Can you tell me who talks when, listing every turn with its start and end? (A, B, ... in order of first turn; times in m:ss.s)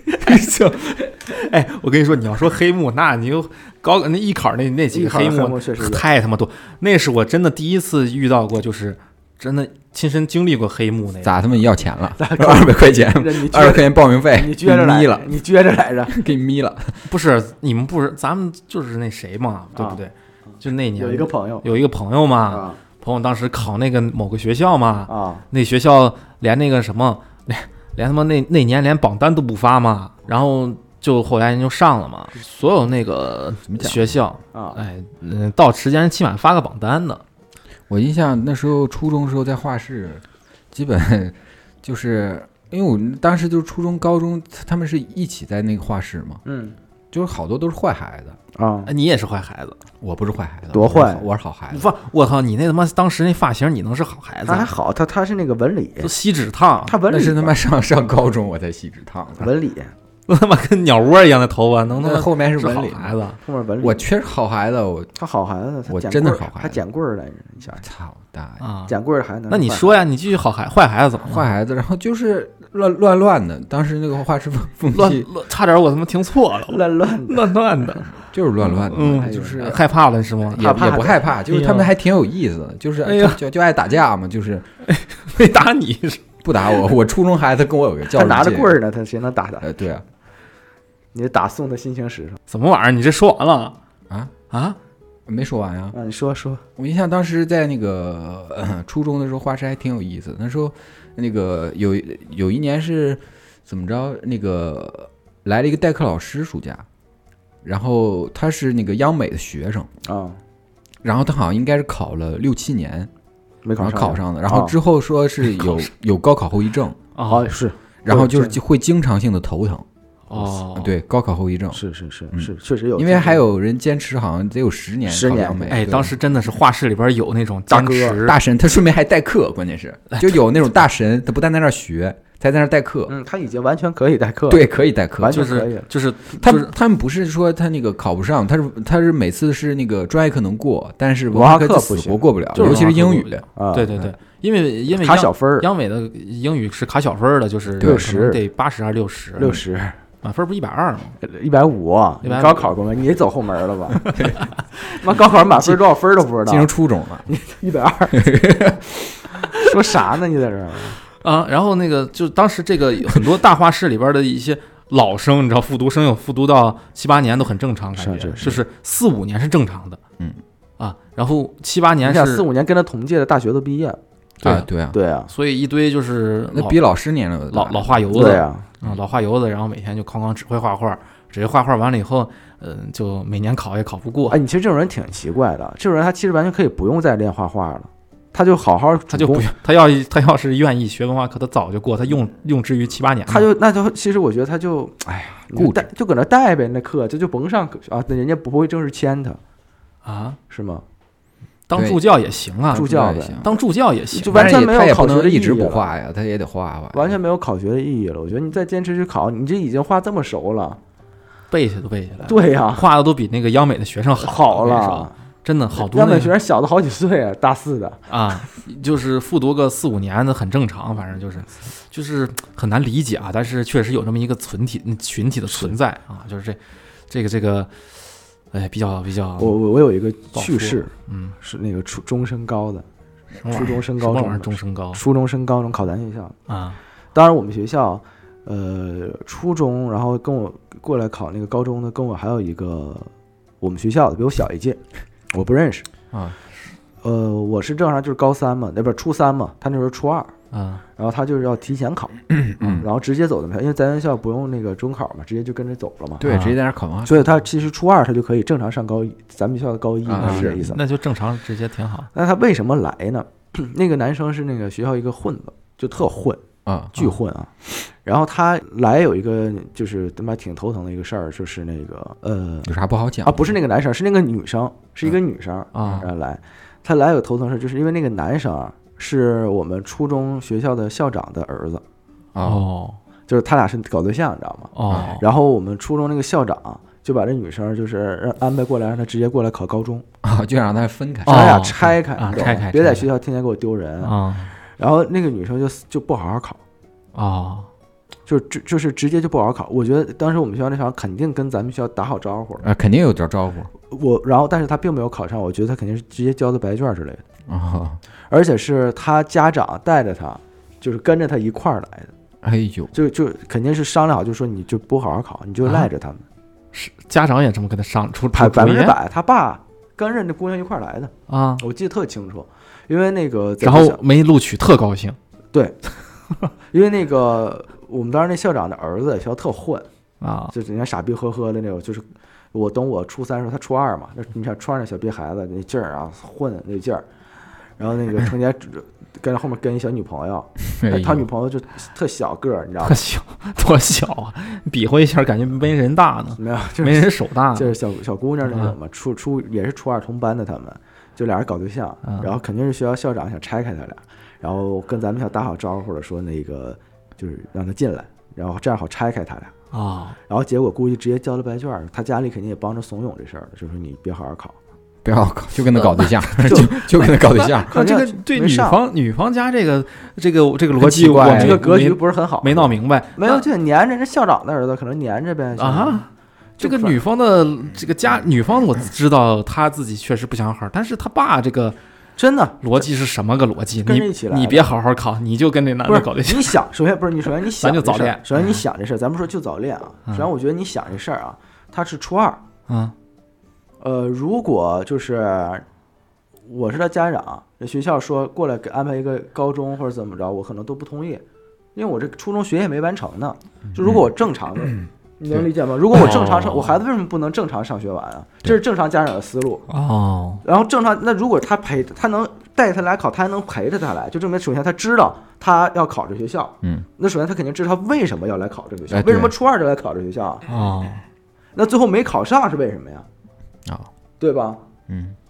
0:00.2-0:00.9 A
0:01.1-0:11.5 B
0:04.9-0:06.0 C
0:11.2-0:15.3 A
0:12.2-0:16.1 C
0:16.1-0:17.0 A
0:17.1-0:37.2 B
0:19.7-0:20.0 C
0:21.0-0:21.6 C
0:22.5-0:22.8 C
0:25.1-0:25.4 C
0:33.7-0:34.2 A
0:34.5-0:34.8 C
0:37.9-0:46.4 A
0:46.4-0:46.8 C
0:47.1-0:48.4 A
0:48.5-0:48.9 C
0:48.8-0:49.8 B
0:50.0-0:51.9 A
0:50.7-0:51.2 C
0:51.7-0:54.8 B
0:54.4-0:56.1 C
0:56.0-0:57.0 B
0:56.8-0:57.5 C
0:57.1-0:59.5 A
0:59.4-0:59.9 C
1:00.3-1:03.4 B
1:02.0-1:03.2 A
1:03.4-1:04.0 C
1:03.8-1:05.1 A
1:05.2-1:07.8 C
1:05.9-1:06.8 A
1:07.8-1:08.6 A
1:08.6-1:08.9 B
1:08.9-1:10.0 C
1:09.5-1:11.4 B
1:11.2-1:15.3 A
1:14.9-1:18.1 B
1:16.7-1:17.5 C
1:18.3-1:19.8 A
1:18.8-1:20.7 B
1:19.0-1:19.6 C
1:20.5-1:24.6 A
1:20.6-1:21.3 C
1:21.4-1:21.9 B
1:23.0-1:23.4 B
1:24.9-1:26.2 B
1:26.4-1:28.7 A
1:28.1-1:29.7 C
1:29.6-1:30.0 A
1:31.1-1:32.4 C
1:32.5-1:33.7 B
1:34.5-1:34.8 B
1:35.3-1:35.9 A
1:35.9-1:36.6 C
1:36.8-1:46.8 A
1:47.6-1:49.9 A
1:50.0-1:50.4 C
1:51.0-1:53.1 A
1:53.6-1:54.8 C
1:53.8-1:57.0 A
1:57.2-1:57.5 B
1:57.3-1:58.6 C
1:58.0-2:01.8 A
2:00.3-2:00.9 B
2:01.7-2:03.4 C
2:02.3-2:06.1 A
2:05.1-2:05.8 C
2:05.7-2:08.4 B
2:07.7-2:08.2 C
2:08.2-2:13.1 A
2:13.1-2:15.9 C
2:14.5-2:15.5 A
2:15.3-2:16.7 B
2:16.4-2:23.4 A
2:21.3-2:22.9 C
2:22.5-2:29.6 B
2:23.6-2:23.9 C
2:24.9-2:25.7 C
2:27.8-2:28.0 A
2:27.8-2:28.4 C
2:29.4-2:30.0 C
2:30.2-2:31.2 B
2:31.2-2:34.0 C
2:32.2-2:32.7 B
2:34.1-2:34.4 A
2:34.9-2:36.7 C
2:36.4-2:37.3 A
2:37.3-2:38.3 C
2:38.1-2:39.2 A
2:39.5-2:41.0 C
2:41.2-2:50.0 B
2:48.0-2:48.6 C
2:50.8-2:52.4 B
2:52.0-2:54.0 C
2:54.4-2:54.7 B
2:54.4-2:55.0 A
2:54.9-2:55.3 C
2:55.3-2:56.8 B
2:56.5-2:58.3 A
2:57.5-3:04.4 B
2:58.1-2:58.6 C
3:04.3-3:09.5 C
3:09.1-3:13.5 B
3:13.3-3:19.4 C
3:15.5-3:15.8 A
3:20.0-3:20.4 B
3:20.5-3:20.8 C
3:21.7-3:22.9 B
3:21.7-3:22.0 A
3:22.7-3:23.5 A
3:22.7-3:23.4 C
3:23.4-3:24.5 B
3:24.1-3:25.9 C
3:24.3-3:27.1 A
3:26.9-3:30.8 C
3:31.5-3:36.3 B
3:32.2-3:32.8 C
3:34.2-3:35.1 C
3:35.8-3:38.0 C
3:38.1-3:46.6 B
3:47.1-3:48.0 B
3:48.5-3:49.6 B
3:49.4-3:52.8 C
3:50.3-3:51.3 B
3:53.4-3:55.0 B
3:53.5-3:56.3 C
3:56.5-3:56.8 B
3:57.1-4:03.1 C
4:03.6-4:04.8 C
4:05.3-4:05.8 C
4:06.1-4:06.4 A
4:07.0-4:10.3 C
4:10.5-4:10.8 B
4:11.0-4:12.2 C
4:12.3-4:12.8 A
4:12.8-4:16.2 C
4:16.2-4:17.2 A
4:16.2-4:16.6 B
4:17.0-4:20.8 C
4:20.0-4:20.6 A
4:20.2-4:22.1 B
4:22.1-4:26.4 C
4:26.6-4:26.9 A
4:27.0-4:32.7 C
4:32.6-4:33.5 A
4:33.2-4:41.8 C
4:35.7-4:36.0 B
4:42.3-4:42.6 A
4:42.4-4:43.0 B
4:43.3-4:50.0 C
4:44.7-4:45.2 B
4:50.2-4:51.6 A
4:51.2-4:53.1 B
4:51.2-4:54.2 C
4:54.0-4:54.5 B
4:54.8-4:56.6 C
4:57.1-4:57.7 B
4:58.3-5:02.7 C
5:02.6-5:03.7 A
5:03.9-5:07.2 C
5:07.5-5:08.0 A
5:08.3-5:12.1 C
5:12.4-5:12.9 A
5:12.9-5:16.2 C
5:16.7-5:19.0 B
5:18.3-5:24.0 C
5:21.3-5:21.6 B
5:23.6-5:25.2 B
5:26.7-5:29.8 C
5:30.2-5:30.5 B
5:30.5-5:37.0 C
5:37.8-5:43.0 C
5:40.7-5:41.3 A
5:42.8-5:47.8 B
5:46.4-5:59.5 C
5:52.0-5:52.3 B
5:59.7-6:00.2 B
6:00.3-6:04.6 C
6:05.0-6:07.7 A
6:05.9-6:08.8 C
6:06.4-6:13.4 B
6:10.8-6:11.6 A
6:11.2-6:16.0 C
6:15.6-6:16.1 B
6:16.6-6:17.0 C
6:16.6-6:21.8 B
6:22.2-6:22.8 C
6:22.6-6:26.6 B
6:23.8-6:24.7 C
6:25.9-6:32.4 C
6:27.5-6:28.6 B
6:32.7-6:32.9 B
6:33.8-6:35.6 C
6:36.4-6:41.2 C
6:41.7-6:49.7 C
6:43.8-6:44.0 A
6:45.9-6:46.8 B
6:49.7-6:50.4 B
6:50.4-7:00.4 C
6:58.9-6:59.3 A
7:00.5-7:01.0 B
7:01.5-7:03.0 C
7:04.2-7:04.6 C
7:04.9-7:05.2 A